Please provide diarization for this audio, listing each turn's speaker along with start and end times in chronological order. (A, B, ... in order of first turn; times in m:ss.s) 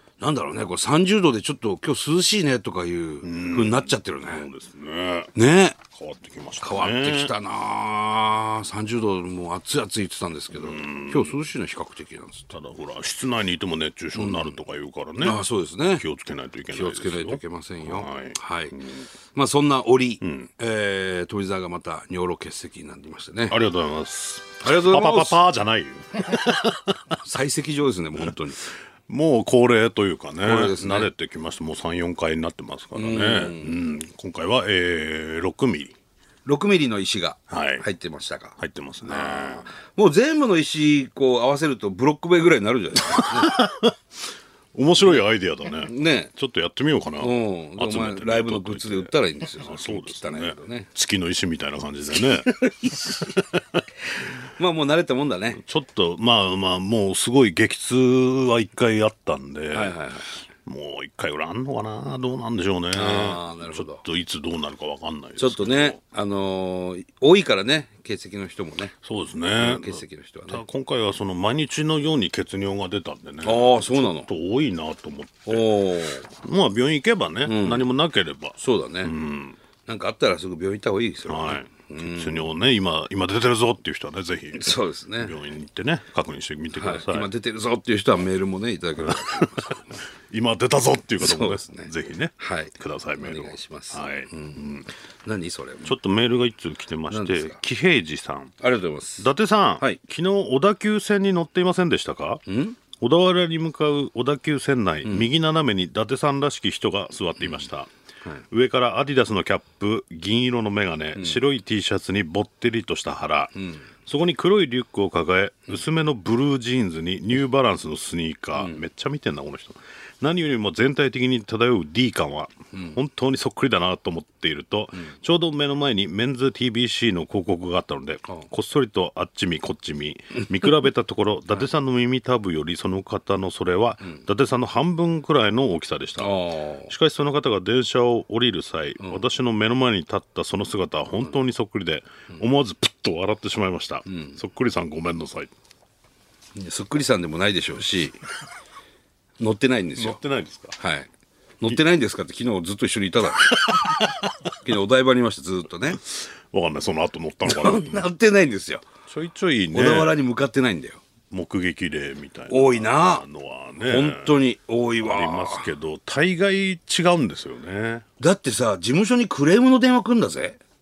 0:00.2-0:04.5 A
0:03.2-0:05.3 B
0:05.3-0:05.8 A
0:05.9-0:07.3 B
0:06.6-0:12.5 A
0:10.5-0:11.4 B
0:12.5-0:15.4 B
0:14.1-0:14.6 A
0:15.2-0:16.0 A
0:16.0-0:19.1 B
0:16.7-0:18.8 A
0:19.3-0:23.6 A
0:20.2-0:20.5 B
0:23.5-0:27.2 B
0:24.6-0:25.4 A
0:27.2-0:28.6 A
0:29.1-0:35.9 B
0:30.4-0:31.1 A
0:32.9-0:33.8 A
0:36.4-0:43.6 A
0:37.5-0:37.8 B
0:38.6-0:39.7 B
0:43.0-0:44.0 B
0:44.7-0:52.5 B
0:45.8-0:46.3 A
0:47.2-0:50.9 A
0:52.4-0:53.4 A
0:54.2-0:55.6 A
0:55.6-1:00.0 B
0:59.7-1:00.4 A
1:00.6-1:06.0 B
1:02.9-1:04.0 A
1:05.4-1:08.9 A
1:09.0-1:19.6 B
1:09.6-1:10.6 A
1:13.4-1:14.3 A
1:15.5-1:16.3 A
1:17.4-1:17.8 A
1:18.6-1:19.1 A
1:19.8-1:22.5 A
1:21.2-1:27.3 B
1:24.5-1:25.3 A
1:26.7-1:30.0 A
1:29.0-1:34.9 B
1:31.2-1:36.0 A
1:35.8-1:38.6 B
1:37.1-1:37.6 A
1:38.6-1:40.0 A
1:39.2-1:42.4 B
1:42.5-1:42.8 A
1:43.0-1:47.9 B
1:45.0-1:45.3 A
1:48.5-1:53.5 B
1:53.6-1:53.8 A
1:54.0-2:25.5 B
2:16.2-2:16.9 A
2:19.0-2:19.2 A
2:24.1-2:24.4 A
2:26.6-2:28.2 A
2:29.4-2:30.2 A
2:30.0-2:30.8 B
2:30.8-2:31.1 A
2:31.6-2:33.8 A
2:33.5-2:34.2 B
2:34.6-2:36.0 A
2:36.0-2:38.1 B
2:37.5-2:38.8 A
2:39.1-2:40.2 B
2:39.7-2:41.0 A
2:41.3-2:44.3 B
2:42.5-2:43.2 A
2:43.8-2:45.7 A
2:45.0-2:48.0 B
2:48.2-2:50.6 A